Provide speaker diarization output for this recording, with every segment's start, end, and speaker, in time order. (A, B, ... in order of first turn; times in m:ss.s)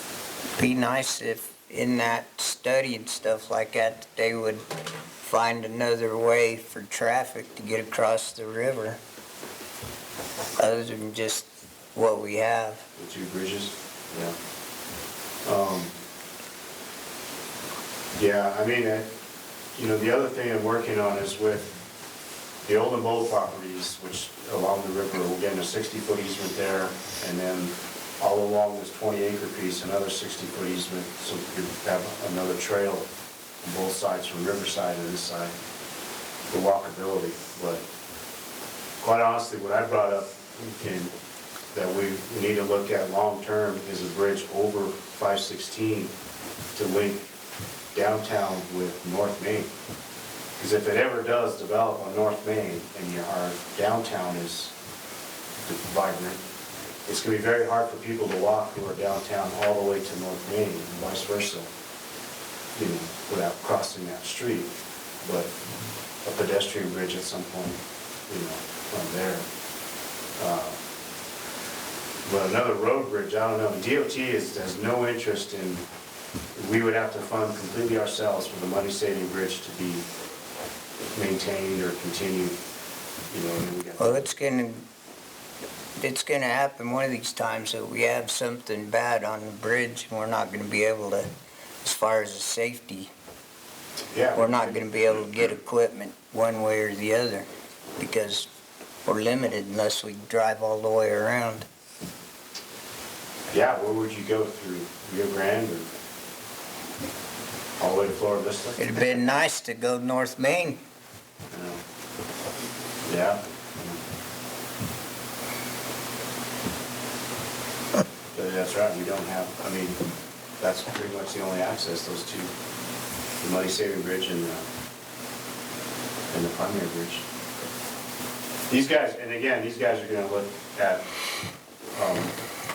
0:00.6-0:04.6 A
0:05.2-0:09.0 A
0:10.6-0:12.8 A
0:13.0-0:14.4 B
0:15.4-0:16.0 B
0:18.2-0:19.1 B
0:19.8-0:21.8 B
0:22.6-0:33.1 B
0:33.6-0:35.6 B
0:36.5-0:37.8 B
0:39.0-0:41.1 B
0:41.7-0:46.1 B
0:46.8-0:47.3 B
0:47.9-0:49.7 B
0:50.6-0:54.7 B
0:55.6-0:56.4 B
0:57.1-1:01.7 B
1:02.8-1:04.7 B
1:05.2-1:05.5 B
1:06.2-1:09.5 B
1:10.4-1:10.8 B
1:12.2-1:15.9 B
1:16.6-1:20.0 B
1:21.2-1:22.6 B
1:23.3-1:24.3 B
1:24.0-1:24.9 A
1:26.0-1:31.3 A
1:31.8-1:33.1 A
1:34.1-1:35.6 B
1:34.3-1:37.5 A
1:38.0-1:38.5 A
1:39.1-1:41.7 A
1:43.5-1:45.9 B
1:47.8-1:48.9 B
1:48.8-1:50.8 A
1:51.5-1:51.8 B
1:53.0-1:54.0 B
1:58.3-2:00.0 B
2:00.6-2:02.5 B
2:03.4-2:04.6 B
2:06.3-2:07.2 B
2:08.7-2:11.1 B
2:11.9-2:12.4 B